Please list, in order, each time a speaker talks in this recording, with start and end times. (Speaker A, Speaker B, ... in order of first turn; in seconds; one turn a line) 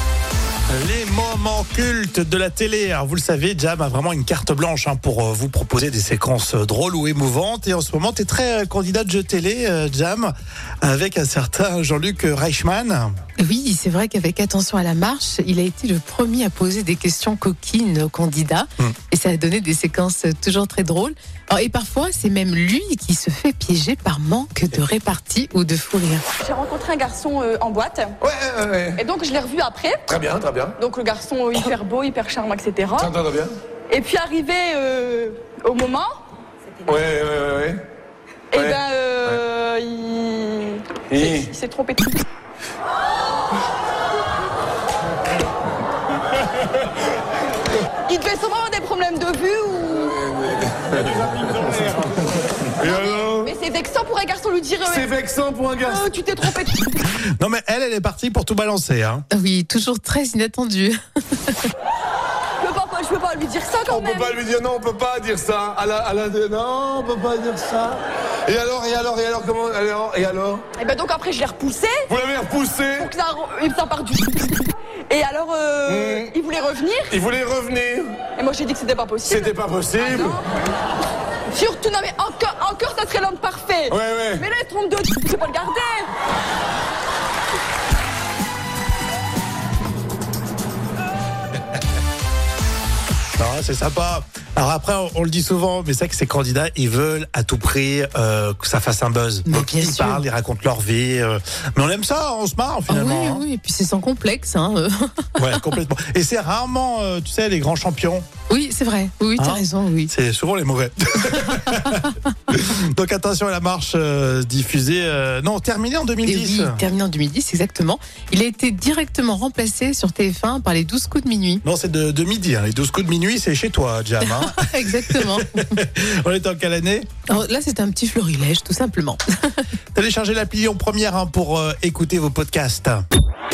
Speaker A: 0.7-13.1
Speaker B: 13.4-26.2
Speaker C: 26.4-28.2
Speaker D: 28.2-29.0
Speaker C: 29.0-30.1
Speaker D: 30.1-30.8
Speaker C: 30.8-33.1
Speaker D: 33.0-33.6
Speaker C: 33.9-36.1
Speaker D: 36.9-37.8
Speaker C: 38.5-42.2
Speaker D: 41.1-41.5
Speaker C: 48.1-50.2
Speaker D: 50.2-52.2
Speaker D: 52.8-53.5
Speaker C: 52.8-55.1
Speaker D: 54.8-56.1
Speaker C: 55.8-57.0
Speaker A: 57.4-59.2
Speaker B: 59.3-61.6
Speaker C: 62.6-64.4
Speaker D: 63.9-70.7
Speaker C: 70.8-72.1
Speaker D: 72.1-73.1
Speaker C: 73.0-77.1
Speaker D: 75.9-76.3
Speaker D: 77.1-78.3
Speaker C: 78.4-80.5
Speaker D: 79.3-80.4
Speaker C: 81.5-86.1
Speaker D: 83.9-84.5
Speaker A: 93.4-103.5
Speaker B: 99.5-100.2
Speaker B: 102.9-105.6
Speaker A: 105.4-108.3
Speaker B: 108.5-110.1
Speaker A: 109.4-116.8
Speaker B: 116.2-121.6
Speaker A: 121.6-127.2
Speaker B: 124.2-125.8
Speaker B: 127.3-129.7
Speaker A: 129.9-133.1